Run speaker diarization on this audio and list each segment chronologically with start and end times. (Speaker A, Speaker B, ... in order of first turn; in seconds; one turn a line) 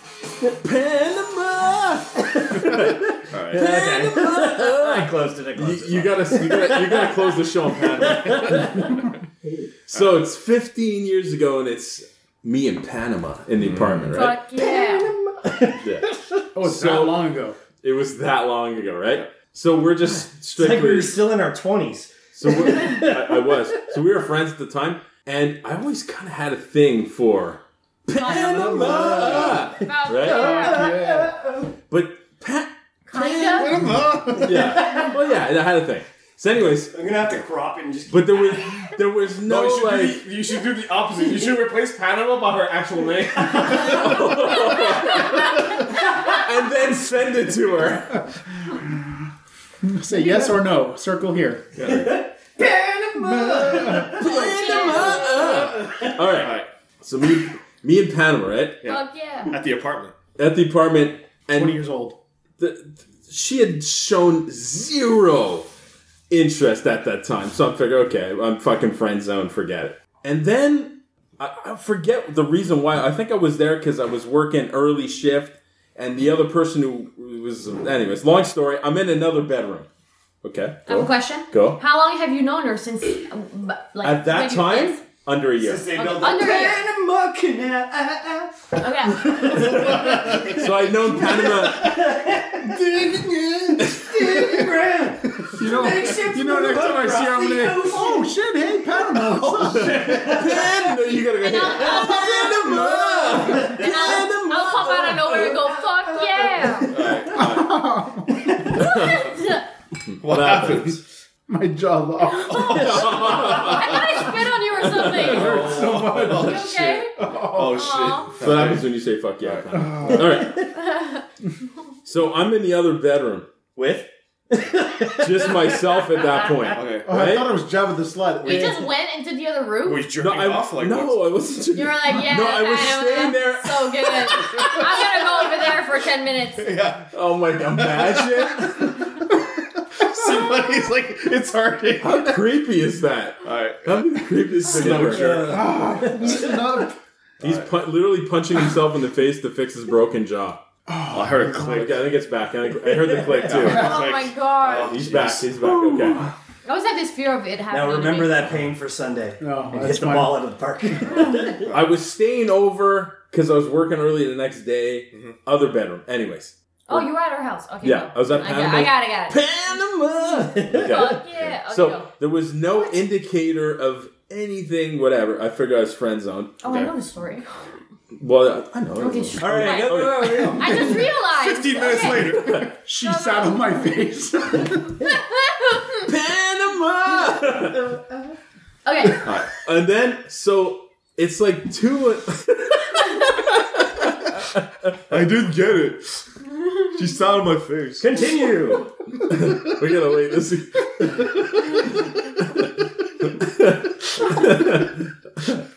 Speaker A: 0.6-3.0
Speaker B: 2.2-8.9
Speaker C: 3.3-3.6
Speaker A: 3.5-9.0
Speaker A: 9.9-14.4
Speaker C: 13.6-14.1
Speaker D: 14.1-15.1
Speaker B: 14.5-16.4
Speaker A: 15.8-16.1
Speaker E: 16.5-17.6
Speaker A: 16.6-17.3
Speaker A: 17.8-21.2
Speaker B: 20.6-23.7
Speaker A: 22.3-30.6
Speaker D: 28.1-30.9
Speaker B: 28.5-31.7
Speaker E: 28.8-29.4
Speaker E: 30.3-31.3
Speaker A: 31.9-37.0
Speaker D: 33.1-33.8
Speaker C: 33.6-34.5
Speaker B: 34.5-35.1
Speaker B: 36.7-38.9
Speaker A: 38.1-40.3
Speaker C: 39.4-44.3
Speaker B: 43.4-44.1
Speaker A: 43.6-48.2
Speaker E: 49.8-51.7
Speaker C: 51.8-52.2
Speaker B: 51.9-56.1
Speaker E: 53.2-54.2
Speaker A: 53.8-58.8
Speaker D: 54.2-55.6
Speaker C: 56.3-56.7
Speaker C: 58.8-60.1
Speaker D: 58.8-59.6
Speaker A: 60.4-61.8
Speaker E: 61.5-62.2
Speaker A: 62.6-65.7
Speaker A: 66.3-79.9
Speaker A: 80.4-81.8
Speaker D: 80.9-85.0
Speaker A: 84.0-85.9
Speaker B: 85.6-92.8
Speaker D: 86.0-86.8
Speaker D: 88.8-89.5
Speaker A: 89.6-92.1
Speaker E: 92.6-94.7
Speaker B: 93.9-98.3
Speaker E: 95.4-100.4
Speaker B: 99.4-100.9
Speaker A: 99.4-105.7
Speaker D: 101.4-102.9
Speaker B: 101.8-103.9
Speaker D: 103.6-106.9
Speaker B: 105.6-107.3
Speaker C: 106.9-107.7
Speaker E: 107.3-108.8
Speaker A: 108.8-109.2
Speaker D: 108.8-109.6
Speaker A: 110.1-111.0
Speaker C: 110.2-111.0
Speaker E: 111.5-113.5
Speaker C: 112.5-113.5
Speaker D: 112.5-115.7
Speaker A: 112.6-114.3
Speaker A: 114.8-116.9
Speaker E: 115.0-117.9
Speaker C: 115.4-117.0
Speaker D: 116.3-117.1
Speaker C: 117.5-118.9
Speaker D: 117.7-118.3
Speaker A: 118.4-120.7
Speaker C: 119.4-119.7
Speaker E: 119.7-120.3
Speaker D: 120.8-121.2
Speaker A: 122.0-123.5
Speaker B: 123.8-126.7
Speaker A: 125.2-127.5
Speaker C: 126.7-127.1
Speaker E: 127.0-128.8
Speaker D: 128.4-130.1
Speaker A: 128.5-128.7
Speaker C: 129.8-131.3
Speaker A: 130.2-134.5
Speaker D: 131.7-136.7
Speaker C: 136.6-137.1
Speaker A: 137.1-138.9
Speaker C: 137.7-138.8
Speaker C: 140.0-142.4
Speaker A: 142.0-145.6
Speaker C: 143.4-143.8
Speaker C: 144.7-145.6
Speaker B: 144.8-146.5
Speaker E: 145.4-146.9
Speaker C: 147.4-147.7
Speaker A: 147.4-150.6
Speaker E: 150.9-151.9
Speaker C: 151.1-152.0
Speaker A: 151.6-154.0
Speaker B: 152.9-153.5
Speaker C: 153.4-156.3
Speaker D: 153.6-155.1
Speaker A: 154.8-156.3
Speaker D: 156.6-158.5
Speaker B: 157.7-161.7
Speaker E: 159.4-160.4
Speaker A: 161.7-167.1
Speaker D: 166.9-169.4
Speaker A: 167.8-176.6
Speaker B: 170.6-170.9
Speaker D: 170.7-172.1
Speaker D: 176.6-177.4
Speaker C: 176.6-176.9
Speaker A: 178.2-180.7
Speaker D: 179.0-182.4
Speaker B: 179.4-180.9
Speaker C: 181.2-182.7
Speaker A: 182.2-182.7
Speaker E: 182.6-185.0
Speaker D: 183.0-183.6
Speaker D: 185.0-185.9
Speaker A: 186.0-187.8
Speaker D: 188.8-189.2
Speaker C: 189.2-189.6
Speaker A: 189.6-194.9
Speaker C: 195.1-196.2
Speaker C: 196.9-198.5
Speaker B: 198.0-198.9
Speaker A: 199.3-201.8
Speaker A: 202.4-202.7
Speaker A: 203.2-205.5